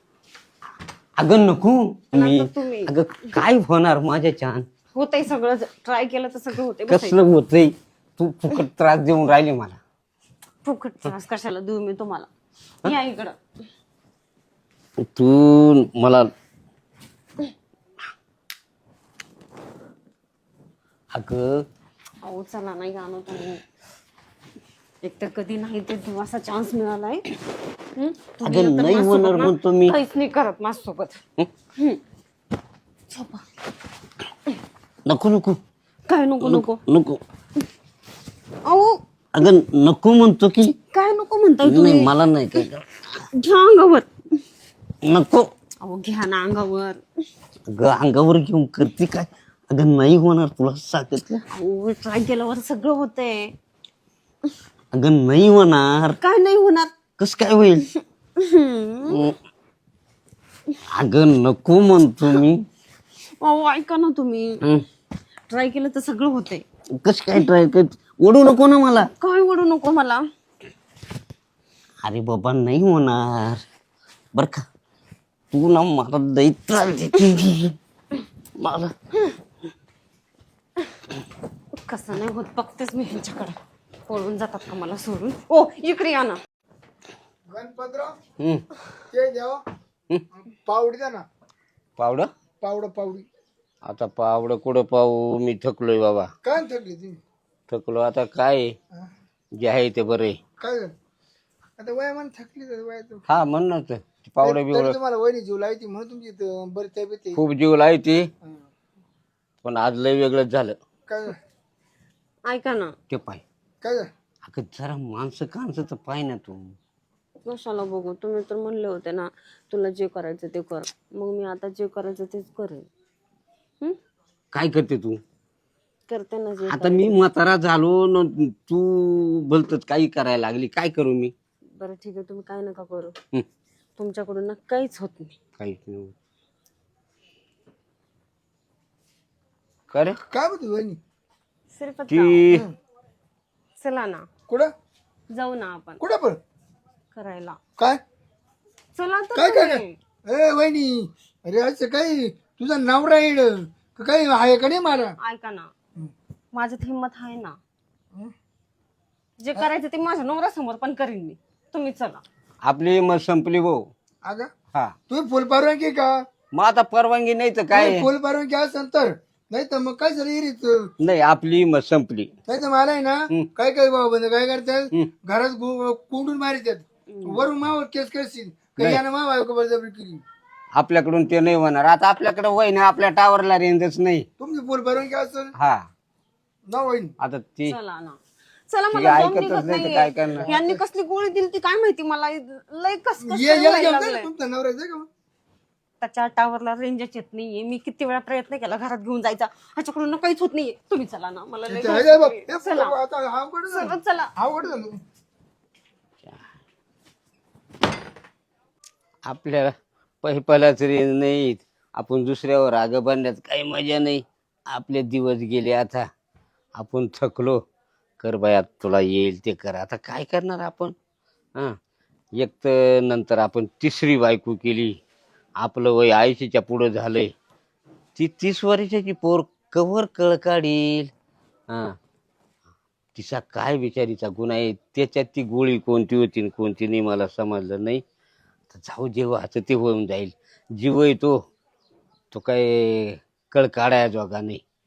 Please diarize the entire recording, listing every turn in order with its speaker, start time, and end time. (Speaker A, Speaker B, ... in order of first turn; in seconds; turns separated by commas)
Speaker A: 1.2-4.7, Speaker B: 2.1-2.9, Speaker B: 4.9-7.2, Speaker A: 6.9-9.8, Speaker B: 10.6-12.3, Speaker B: 12.8-13.4, Speaker A: 15.0-16.3, Speaker A: 21.1-21.6, Speaker B: 22.2-23.6, Speaker B: 25.0-27.2, Speaker B: 27.9-31.2, Speaker A: 28.4-29.9, Speaker B: 31.8-32.0, Speaker B: 33.1-33.4, Speaker A: 35.0-35.6, Speaker B: 36.1-36.8, Speaker A: 36.4-37.2, Speaker B: 38.6-39.0, Speaker A: 39.3-40.7, Speaker B: 40.9-42.1, Speaker A: 41.6-42.9, Speaker B: 43.3-44.1, Speaker A: 45.0-45.5, Speaker B: 45.8-47.0, Speaker A: 47.7-51.4, Speaker B: 51.5-53.5, Speaker A: 54.9-56.2, Speaker B: 56.2-57.0, Speaker A: 57.2-57.9, Speaker B: 58.4-59.2, Speaker A: 59.1-59.3, Speaker A: 60.9-62.6, Speaker B: 63.4-64.6, Speaker B: 65.5-66.6, Speaker A: 67.0-69.1, Speaker B: 69.2-70.2, Speaker A: 72.0-73.6, Speaker A: 74.3-74.6, Speaker A: 75.5-77.8, Speaker A: 78.6-78.9, Speaker B: 81.7-83.6, Speaker B: 84.1-86.4, Speaker C: 87.5-88.1, Speaker A: 88.4-88.7, Speaker C: 89.1-89.6, Speaker C: 90.5-91.2, Speaker A: 92.0-92.3, Speaker C: 92.6-93.2, Speaker A: 93.8-96.3, Speaker C: 96.4-97.2, Speaker A: 97.7-98.7, Speaker A: 99.6-100.4, Speaker C: 100.6-100.9, Speaker C: 101.8-103.2, Speaker A: 103.3-105.0, Speaker C: 104.4-107.4, Speaker A: 107.3-108.3, Speaker A: 109.6-110.8, Speaker C: 111.1-111.4, Speaker B: 112.5-113.0, Speaker A: 113.1-113.4, Speaker C: 113.8-114.1, Speaker A: 114.4-116.7, Speaker B: 117.4-122.9, Speaker A: 124.5-125.2, Speaker B: 126.1-127.1, Speaker A: 126.7-131.3, Speaker B: 131.8-133.1, Speaker B: 134.0-135.3, Speaker A: 135.6-136.1, Speaker A: 139.9-140.2, Speaker C: 140.3-141.0, Speaker B: 141.7-142.4, Speaker A: 142.1-142.7, Speaker B: 143.8-144.2, Speaker B: 145.3-146.0, Speaker C: 146.0-146.4, Speaker B: 147.1-147.6, Speaker B: 148.9-150.0, Speaker C: 149.3-155.1, Speaker B: 155.2-155.7, Speaker B: 156.5-157.6, Speaker B: 159.4-162.2, Speaker A: 162.6-163.9, Speaker C: 164.2-164.5, Speaker C: 165.1-166.2, Speaker A: 166.5-168.1, Speaker C: 167.7-170.9, Speaker A: 171.0-172.3, Speaker C: 172.5-180.2, Speaker B: 177.1-177.4, Speaker A: 180.8-184.2, Speaker C: 184.4-185.5, Speaker A: 185.6-185.8, Speaker C: 186.7-187.1, Speaker A: 187.2-187.8, Speaker B: 187.7-188.2, Speaker B: 188.7-194.3, Speaker A: 188.9-190.5, Speaker C: 190.4-190.8, Speaker C: 193.2-195.1, Speaker B: 196.0-203.0, Speaker C: 201.7-205.0, Speaker B: 203.7-204.3, Speaker A: 209.2-216.1, Speaker A: 216.8-217.6, Speaker A: 218.2-220.9, Speaker A: 222.4-225.0, Speaker A: 225.6-227.3, Speaker A: 228.2-231.1, Speaker A: 231.7-231.9, Speaker A: 233.2-238.0, Speaker A: 238.7-241.3, Speaker A: 242.3-244.6